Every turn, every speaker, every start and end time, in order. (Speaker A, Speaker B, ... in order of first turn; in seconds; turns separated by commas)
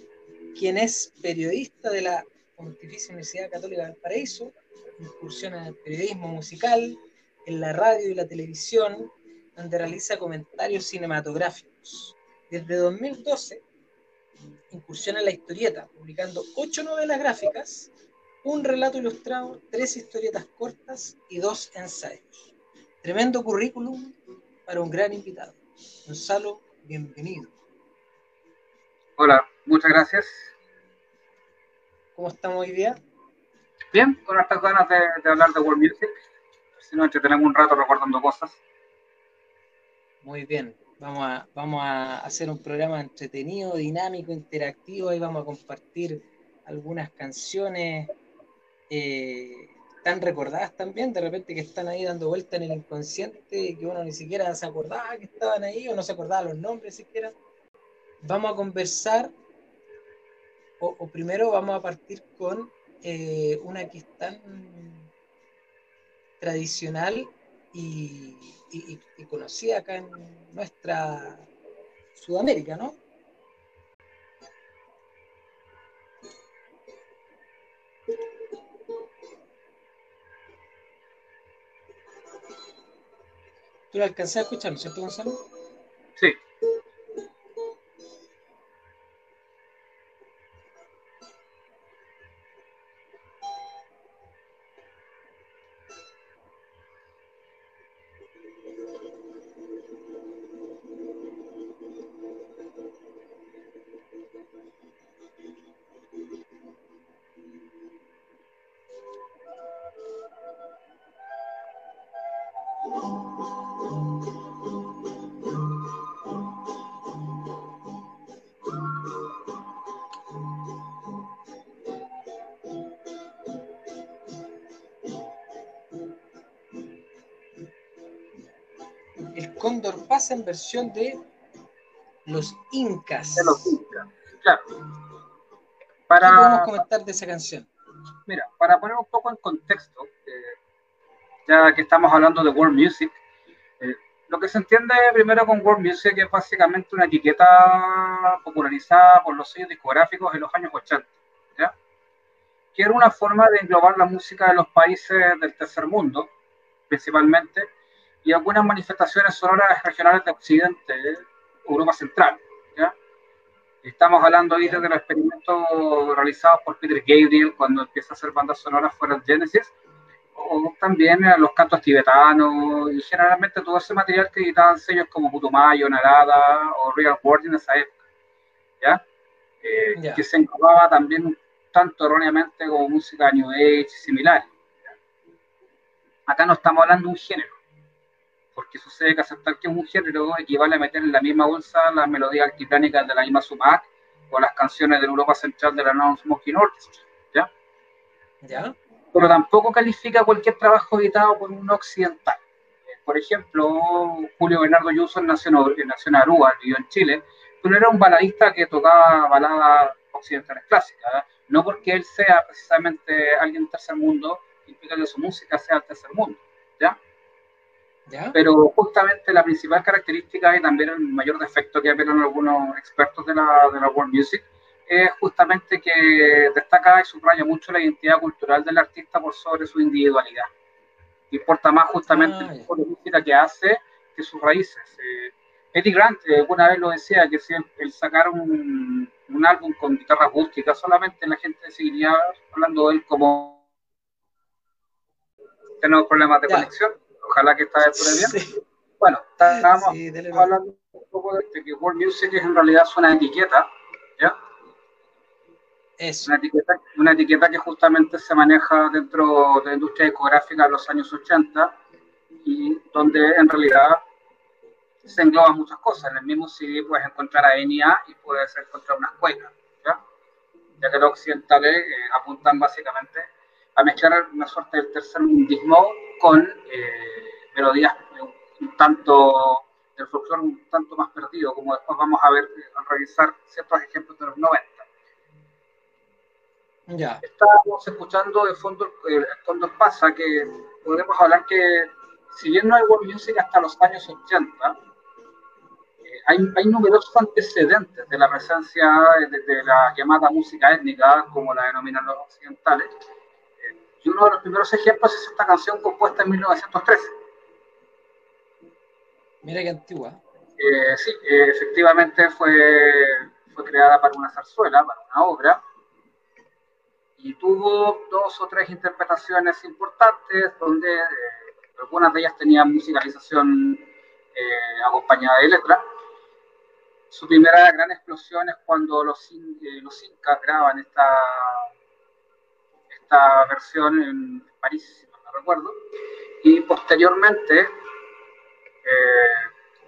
Speaker A: 0.5-13.6, Speaker A: 14.7-17.9, Speaker A: 18.4-22.5, Speaker A: 23.0-24.2, Speaker A: 24.7-27.5, Speaker B: 29.2-30.5, Speaker A: 32.2-33.0, Speaker B: 33.9-36.2, Speaker B: 36.8-38.6, Speaker A: 40.2-48.1, Speaker A: 48.9-57.3, Speaker A: 58.2-59.3, Speaker A: 60.8-65.1, Speaker A: 66.4-71.5, Speaker A: 72.2-73.0, Speaker A: 83.9-85.4, Speaker A: 129.3-131.2, Speaker A: 132.3-133.8, Speaker B: 133.4-134.8, Speaker B: 136.1-136.8, Speaker A: 136.2-137.7, Speaker B: 138.3-140.6, Speaker B: 141.5-143.2, Speaker B: 143.8-151.8, Speaker B: 152.8-156.3, Speaker B: 156.9-157.7, Speaker B: 158.2-162.9, Speaker B: 163.8-169.7, Speaker B: 170.3-178.0, Speaker B: 179.6-184.9, Speaker A: 179.9-180.2, Speaker B: 186.3-187.6, Speaker B: 188.6-197.5, Speaker A: 198.4-198.8, Speaker B: 199.1-217.0, Speaker A: 218.1-218.4, Speaker B: 218.3-230.5, Speaker B: 231.3-243.6, Speaker A: 232.1-232.7, Speaker B: 245.8-248.4, Speaker A: 248.0-248.6, Speaker B: 249.0-253.7, Speaker A: 249.5-250.5, Speaker A: 256.0-256.3, Speaker B: 256.2-261.7, Speaker B: 262.4-264.0, Speaker B: 265.0-270.0, Speaker B: 270.8-284.9, Speaker A: 286.9-287.2, Speaker B: 287.2-294.8, Speaker B: 296.1-302.9, Speaker B: 303.6-307.1, Speaker A: 309.4-310.2, Speaker B: 310.6-315.6, Speaker B: 317.2-325.9, Speaker B: 327.1-331.7, Speaker B: 332.9-335.8, Speaker B: 336.4-337.7, Speaker B: 338.8-339.5